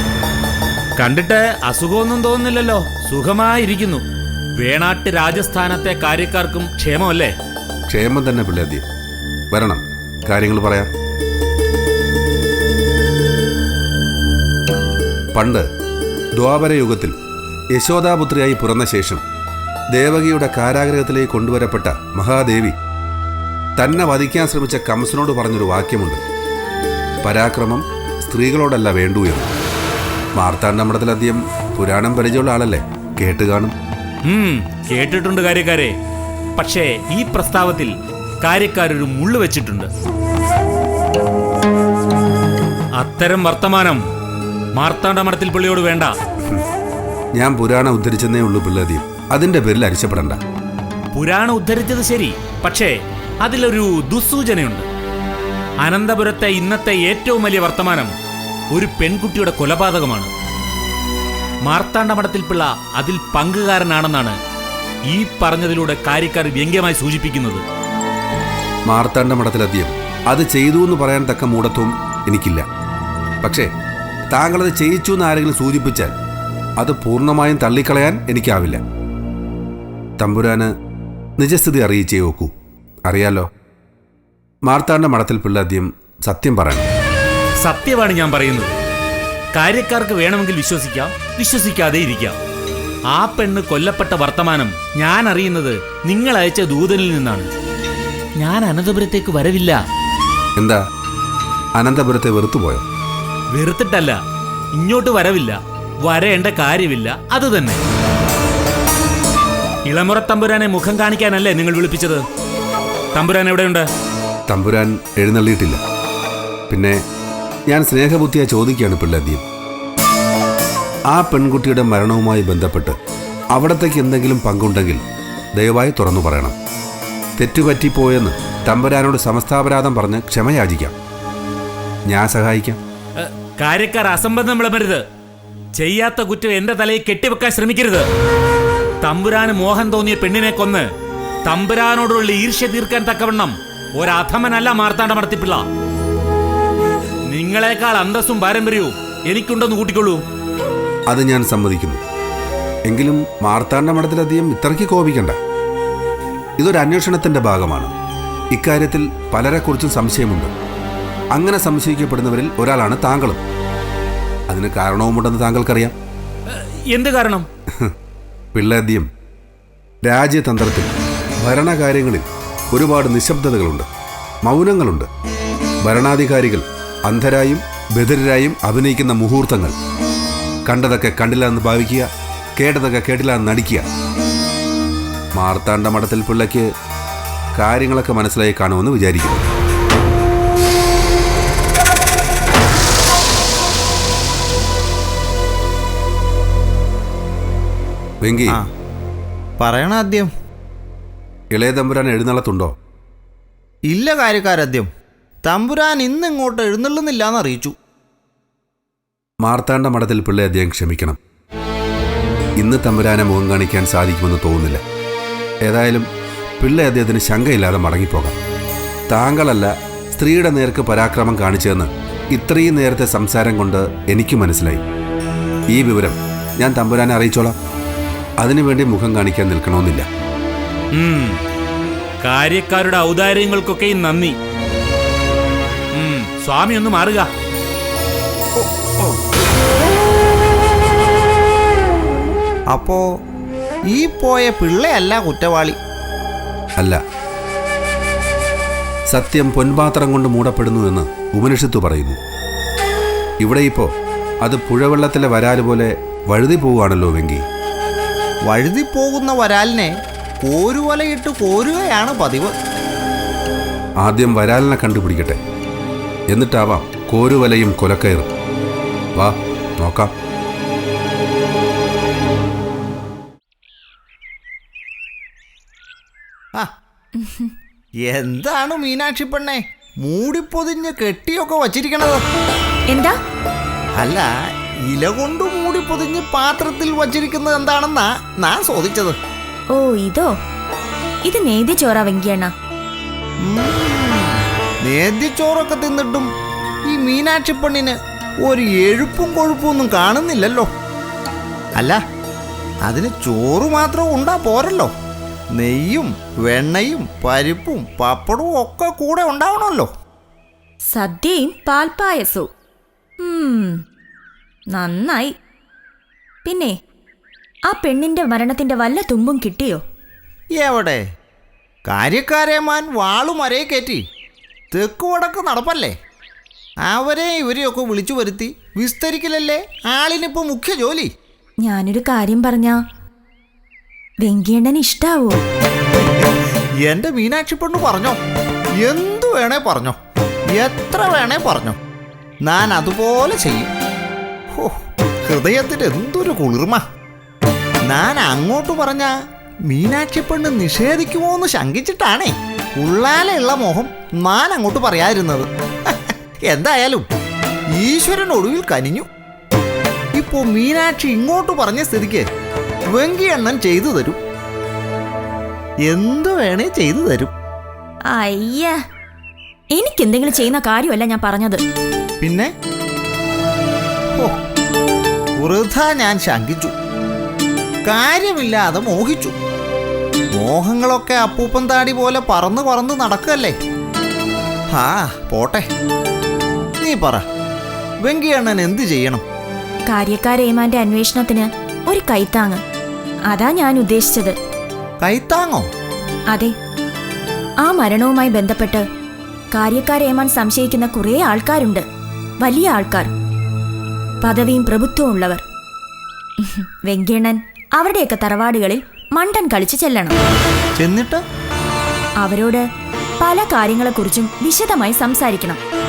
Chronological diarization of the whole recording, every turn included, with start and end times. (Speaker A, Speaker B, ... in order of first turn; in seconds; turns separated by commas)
Speaker A: 1.0-4.0, Speaker A: 4.6-7.3, Speaker B: 7.9-8.8, Speaker B: 9.5-10.9, Speaker B: 15.3-15.7, Speaker B: 16.3-17.1, Speaker B: 17.7-19.2, Speaker B: 19.9-22.7, Speaker B: 23.8-26.2, Speaker B: 27.2-29.5, Speaker B: 30.3-33.7, Speaker A: 34.3-35.9, Speaker A: 36.6-37.9, Speaker A: 38.4-39.9, Speaker A: 43.0-44.0, Speaker A: 44.8-46.1, Speaker B: 47.3-50.4, Speaker A: 51.1-52.9, Speaker A: 53.4-54.8, Speaker A: 55.8-58.1, Speaker A: 58.7-60.3, Speaker A: 61.6-64.3, Speaker A: 65.1-67.6, Speaker B: 68.8-72.6, Speaker B: 74.3-76.1, Speaker B: 76.8-78.8, Speaker B: 80.2-80.7, Speaker B: 81.4-82.5, Speaker B: 83.0-83.5, Speaker B: 84.6-86.9, Speaker A: 87.6-88.7, Speaker A: 89.5-92.4, Speaker A: 93.1-97.5, Speaker A: 98.4-99.8, Speaker B: 101.7-102.8, Speaker A: 103.5-104.2, Speaker A: 104.7-107.8, Speaker A: 109.9-112.2, Speaker A: 113.1-113.8, Speaker B: 114.5-115.8, Speaker B: 116.7-117.0, Speaker B: 117.7-119.4, Speaker B: 121.1-123.0, Speaker B: 123.5-126.5, Speaker B: 127.4-130.9, Speaker B: 132.1-132.8, Speaker A: 133.2-135.0, Speaker A: 135.8-138.1, Speaker A: 139.0-140.8, Speaker A: 141.4-145.6, Speaker A: 147.3-150.2, Speaker B: 151.1-152.0, Speaker B: 152.8-155.4, Speaker B: 156.6-157.9, Speaker B: 158.5-160.5, Speaker B: 161.3-163.4, Speaker B: 164.5-165.9, Speaker A: 166.5-167.4, Speaker B: 168.5-169.1, Speaker B: 170.0-173.9, Speaker B: 174.4-175.1, Speaker B: 175.8-179.8, Speaker B: 180.7-183.9, Speaker B: 185.3-186.6, Speaker B: 187.5-189.5, Speaker B: 198.2-198.6, Speaker C: 199.6-200.3, Speaker B: 201.5-202.7, Speaker C: 203.9-204.9, Speaker C: 205.4-207.7, Speaker B: 209.4-211.2, Speaker B: 212.6-214.8, Speaker B: 215.6-216.1, Speaker B: 216.6-218.3, Speaker B: 219.1-224.8, Speaker B: 225.7-227.5, Speaker B: 228.4-230.1, Speaker A: 230.9-231.3, Speaker A: 232.2-234.3, Speaker A: 235.9-237.3, Speaker C: 238.6-239.1, Speaker C: 242.7-243.0, Speaker C: 243.9-245.8, Speaker B: 249.1-252.2, Speaker B: 253.4-253.9, Speaker B: 254.4-257.4, Speaker C: 258.4-262.5, Speaker B: 264.0-265.4, Speaker B: 266.3-268.3, Speaker B: 269.1-270.1, Speaker D: 277.2-277.5, Speaker C: 278.0-282.2, Speaker D: 282.9-283.2, Speaker C: 284.0-284.3, Speaker C: 284.9-289.1, Speaker D: 289.7-290.3, Speaker D: 291.2-292.5, Speaker C: 293.4-296.3, Speaker C: 296.9-300.7, Speaker C: 302.8-304.9, Speaker C: 305.5-309.9, Speaker D: 310.9-312.5, Speaker D: 313.2-313.8, Speaker D: 314.7-315.3, Speaker D: 316.4-316.7, Speaker D: 317.7-319.8, Speaker C: 320.6-321.0, Speaker C: 321.9-324.0, Speaker C: 324.7-325.9, Speaker C: 326.8-331.1, Speaker D: 331.6-332.8, Speaker D: 334.2-335.4, Speaker C: 336.8-338.2, Speaker C: 338.8-340.0, Speaker C: 340.5-341.8, Speaker C: 342.4-343.7, Speaker C: 345.2-346.8, Speaker C: 347.9-349.1, Speaker C: 349.7-357.0, Speaker C: 357.7-359.1, Speaker C: 360.1-362.2, Speaker C: 362.9-364.2, Speaker C: 365.9-367.3, Speaker D: 368.1-368.8, Speaker D: 369.7-371.6, Speaker C: 372.2-372.5, Speaker C: 375.4-376.7, Speaker C: 377.9-379.3, Speaker C: 380.3-383.5, Speaker C: 384.7-385.7, Speaker C: 386.8-387.2, Speaker C: 388.0-389.2, Speaker D: 389.9-392.6, Speaker D: 393.3-394.3, Speaker C: 395.0-395.6, Speaker D: 397.6-398.8, Speaker D: 399.5-401.8, Speaker D: 402.4-403.1, Speaker D: 404.2-405.4, Speaker D: 406.4-410.2, Speaker C: 410.8-411.2, Speaker D: 412.2-412.6, Speaker D: 413.2-415.6